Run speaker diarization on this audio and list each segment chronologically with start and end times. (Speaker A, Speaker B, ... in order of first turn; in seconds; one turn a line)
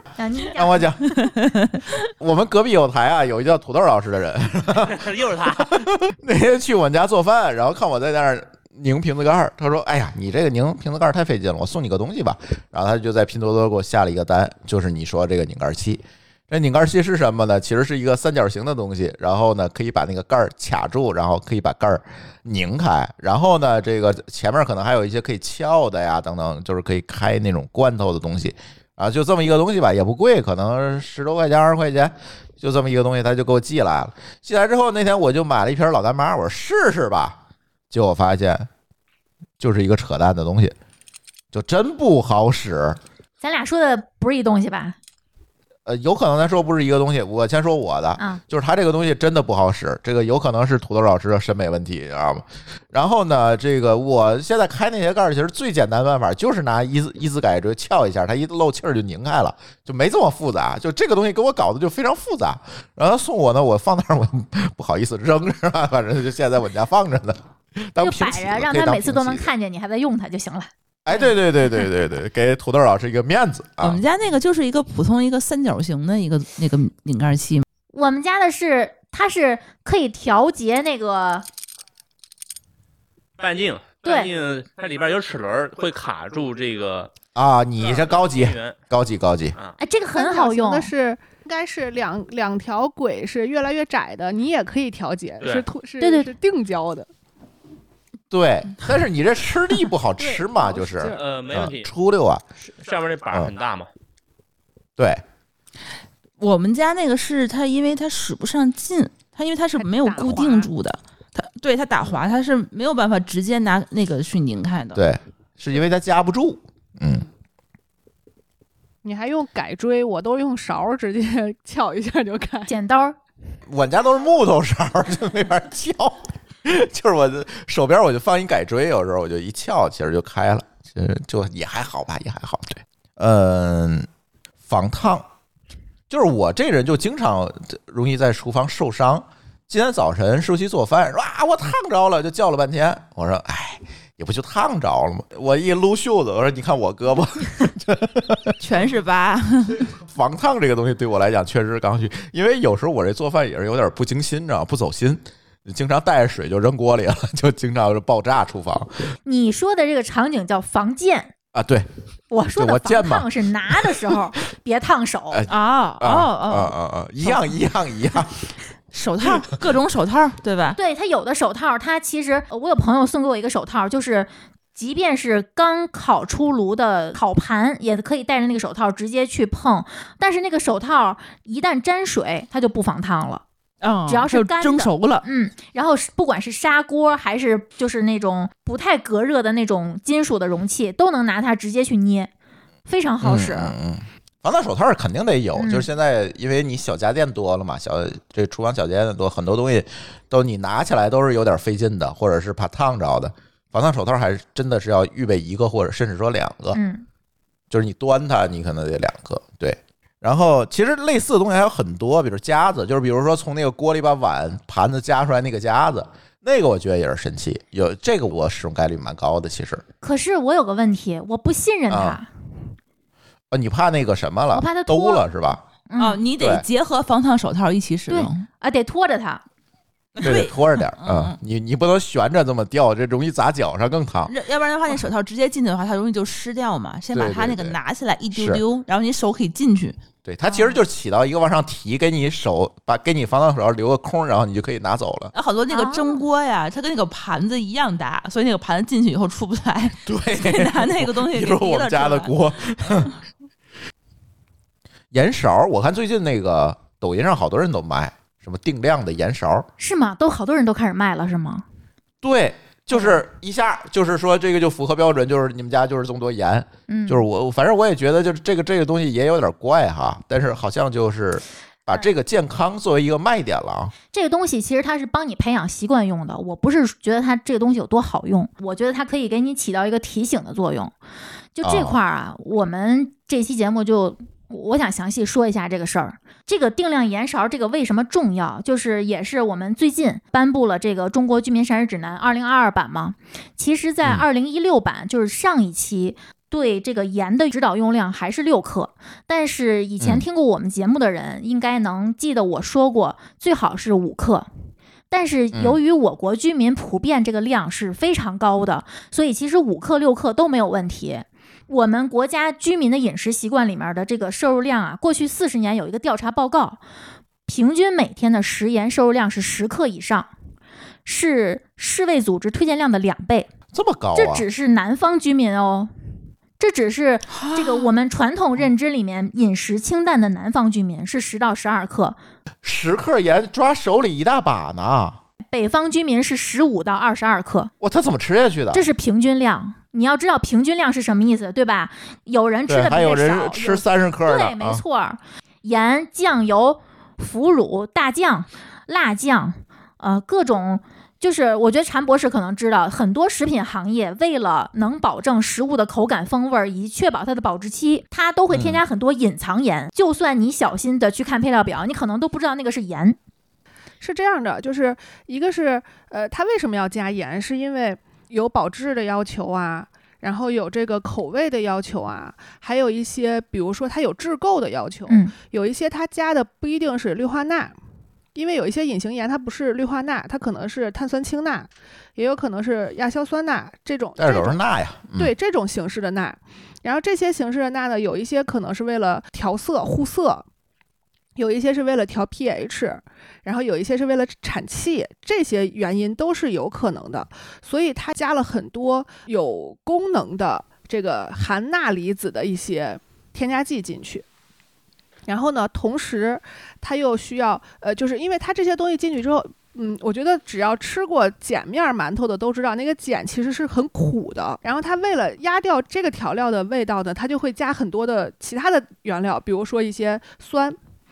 Speaker A: 0.2-0.9
Speaker B: 0.4-1.2
Speaker C: 1.2-1.8
Speaker B: 2.1-37.4
Speaker D: 4.8-5.8
Speaker B: 37.9-38.7
Speaker B: 39.6-40.8
Speaker B: 41.5-43.0
Speaker A: 43.4-45.0
Speaker B: 45.9-69.5
Speaker A: 68.0-71.3
Speaker B: 71.0-74.0
Speaker C: 73.8-77.7
Speaker A: 77.9-81.5
Speaker D: 83.4-87.1
Speaker A: 84.0-84.3
Speaker B: 87.3-89.6
Speaker D: 87.8-88.8
Speaker A: 89.8-90.9
Speaker E: 90.2-97.1
Speaker D: 95.4-95.7
Speaker A: 96.0-96.3
Speaker B: 98.3-102.4
Speaker E: 100.2-101.2
Speaker D: 101.1-101.9
Speaker D: 102.6-103.9
Speaker B: 105.0-105.2
Speaker C: 106.4-115.0
Speaker E: 109.8-110.7
Speaker B: 115.0-117.3
Speaker E: 119.0-122.7
Speaker A: 122.7-123.2
Speaker B: 123.7-134.1
Speaker B: 134.7-135.2
Speaker B: 136.1-148.6
Speaker C: 148.6-149.9
Speaker B: 149.8-159.1
Speaker A: 159.3-161.3
Speaker B: 161.5-161.9
Speaker A: 162.3-165.4
Speaker B: 162.6-164.2
Speaker B: 165.3-168.3
Speaker C: 165.5-167.4
Speaker C: 168.9-170.8
Speaker B: 169.2-169.6
Speaker A: 170.8-183.4
Speaker C: 183.8-185.3
Speaker A: 184.1-192.3
Speaker A: 192.9-193.8
Speaker B: 193.2-206.8
Speaker A: 195.6-195.9
Speaker A: 206.7-207.1
Speaker B: 207.7-219.8
Speaker A: 220.0-222.3
Speaker B: 221.9-222.2
Speaker B: 223.5-225.6
Speaker A: 224.5-225.3
Speaker A: 225.9-226.2
Speaker C: 226.0-228.5
Speaker B: 226.4-226.7
Speaker A: 228.1-229.4
Speaker C: 230.2-231.4
Speaker B: 230.2-234.3
Speaker C: 234.2-240.0
Speaker B: 237.1-237.8
Speaker B: 238.3-238.6
Speaker B: 240.2-245.3
Speaker C: 245.3-252.3
Speaker A: 245.7-246.2
Speaker B: 250.1-253.1
Speaker B: 255.1-259.7
Speaker A: 259.8-261.6
Speaker B: 262.2-273.9
Speaker A: 266.9-267.3
Speaker A: 274.1-280.9
Speaker A: 281.6-304.5
Speaker B: 281.6-282.0
Speaker A: 305.1-316.8
Speaker B: 305.5-305.8
Speaker A: 317.5-320.3
Speaker A: 321.1-323.5
Speaker B: 323.7-324.5
Speaker A: 324.1-325.9
Speaker A: 326.6-332.2
Speaker C: 327.3-327.9
Speaker B: 332.6-335.2
Speaker A: 335.5-337.7
Speaker B: 337.8-338.9
Speaker A: 338.7-363.2
Speaker B: 342.7-344.8
Speaker B: 358.5-358.8
Speaker E: 364.0-377.8
Speaker A: 375.1-375.3
Speaker E: 378.4-384.6
Speaker B: 384.2-385.3
Speaker E: 385.2-390.4
Speaker E: 391.4-404.2
Speaker E: 405.3-420.8